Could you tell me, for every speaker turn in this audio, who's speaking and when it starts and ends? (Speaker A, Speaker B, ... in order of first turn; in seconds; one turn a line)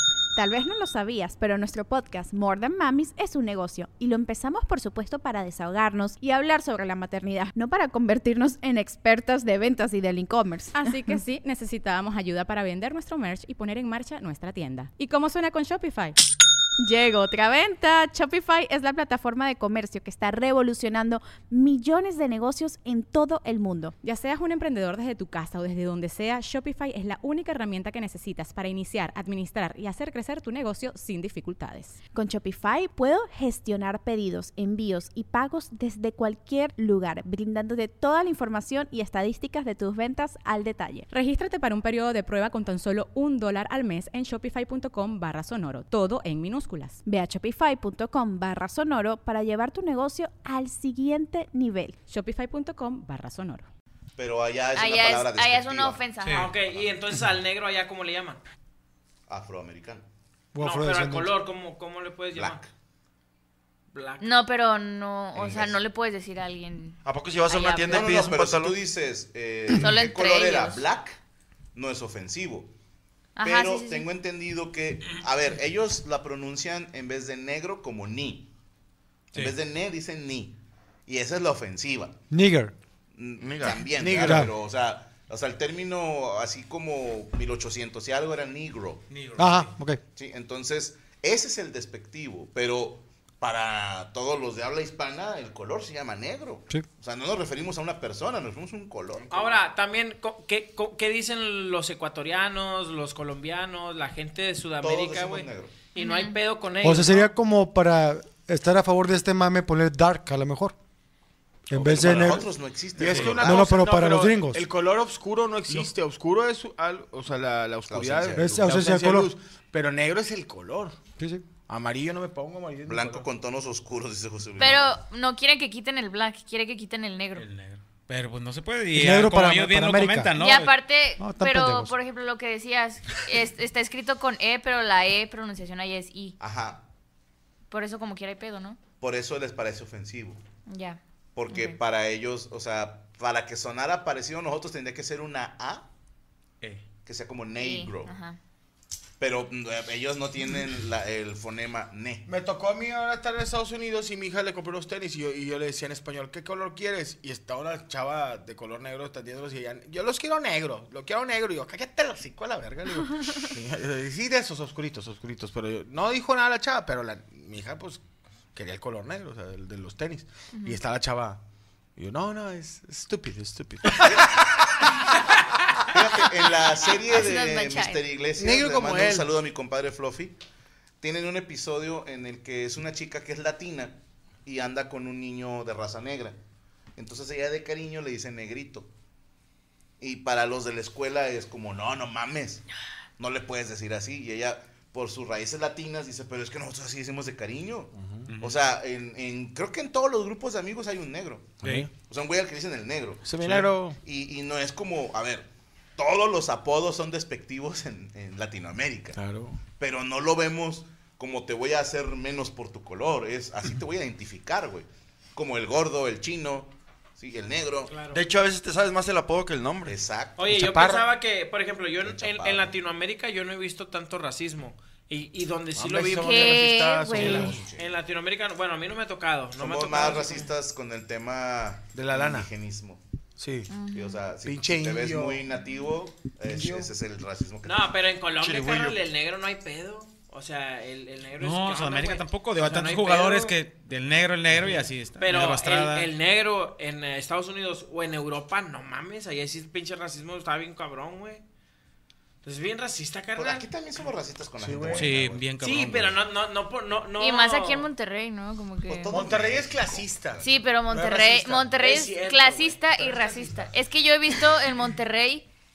Speaker A: 0.4-11.2
Speaker B: 10.8-16.2
Speaker A: 16.8-23.9
Speaker B: 24.0-32.0
Speaker A: 32.1-41.1
Speaker B: 41.1-47.0
Speaker A: 47.1-52.0
Speaker B: 52.1-53.7
Speaker C: 54.2-56.0
Speaker D: 54.8-56.5
Speaker E: 56.2-56.5
Speaker F: 56.4-58.4
Speaker C: 56.6-56.9
Speaker C: 59.3-60.0
Speaker G: 60.5-61.3
Speaker F: 60.6-62.6
Speaker C: 62.4-62.7
Speaker F: 63.9-64.2
Speaker D: 64.2-68.1
Speaker C: 65.3-65.7
Speaker H: 67.0-68.8
Speaker C: 67.9-71.2
Speaker D: 69.7-70.8
Speaker C: 71.8-72.7
Speaker D: 73.4-74.1
Speaker C: 73.4-78.5
Speaker C: 79.3-82.2
Speaker G: 82.3-82.8
Speaker C: 83.2-89.0
Speaker H: 83.4-84.3
Speaker I: 84.0-84.5
Speaker G: 84.0-84.5
Speaker E: 89.1-89.7
Speaker G: 89.4-90.0
Speaker C: 90.2-99.5
Speaker F: 99.3-107.3
Speaker C: 104.8-105.7
Speaker D: 106.0-106.4
Speaker G: 106.8-110.8
Speaker G: 111.7-112.5
Speaker C: 111.7-113.9
Speaker I: 113.0-121.0
Speaker G: 113.0-114.7
Speaker C: 117.9-118.7
Speaker G: 118.3-119.3
Speaker G: 121.2-121.5
Speaker I: 121.6-123.3
Speaker C: 122.9-125.0
Speaker D: 124.6-127.5
Speaker E: 127.4-130.8
Speaker G: 128.9-130.3
Speaker D: 130.4-136.4
Speaker G: 131.2-131.9
Speaker C: 136.4-136.8
Speaker D: 137.7-138.8
Speaker C: 139.0-140.4
Speaker D: 140.7-141.8
Speaker C: 141.3-145.9
Speaker C: 147.1-148.1
Speaker D: 147.6-148.4
Speaker C: 149.2-152.2
Speaker I: 152.3-168.0
Speaker I: 168.5-171.4
Speaker D: 170.5-170.8
Speaker I: 172.0-174.4
Speaker C: 175.9-180.4
Speaker D: 177.1-178.0
Speaker I: 178.4-179.3
Speaker C: 181.0-186.4
Speaker C: 187.0-188.9
Speaker C: 190.0-192.6
Speaker C: 193.2-209.2
Speaker I: 198.0-198.3
Speaker E: 198.3-198.6
Speaker E: 201.6-201.9
Speaker I: 201.6-201.9
Speaker I: 203.2-204.0
Speaker I: 209.2-209.6
Speaker C: 209.8-217.9
Speaker F: 217.9-218.2
Speaker H: 218.1-220.0
Speaker C: 219.9-220.5
Speaker F: 220.4-230.5
Speaker I: 220.5-221.1
Speaker C: 222.0-222.7
Speaker I: 225.8-227.6
Speaker D: 226.1-227.5
Speaker C: 227.2-227.9
Speaker C: 229.6-233.0
Speaker I: 231.9-232.5
Speaker I: 233.4-233.7
Speaker D: 233.7-234.3
Speaker C: 233.9-237.9
Speaker I: 234.4-235.4
Speaker I: 236.5-236.9
Speaker F: 237.6-243.6
Speaker H: 238.4-239.0
Speaker E: 241.4-246.1
Speaker F: 245.2-251.4
Speaker F: 252.4-253.7
Speaker C: 253.4-255.5
Speaker I: 254.6-255.2
Speaker E: 254.9-256.2
Speaker F: 255.6-257.9
Speaker D: 257.2-259.2
Speaker C: 258.9-260.6
Speaker I: 259.0-261.7
Speaker D: 260.4-265.5
Speaker F: 261.7-263.7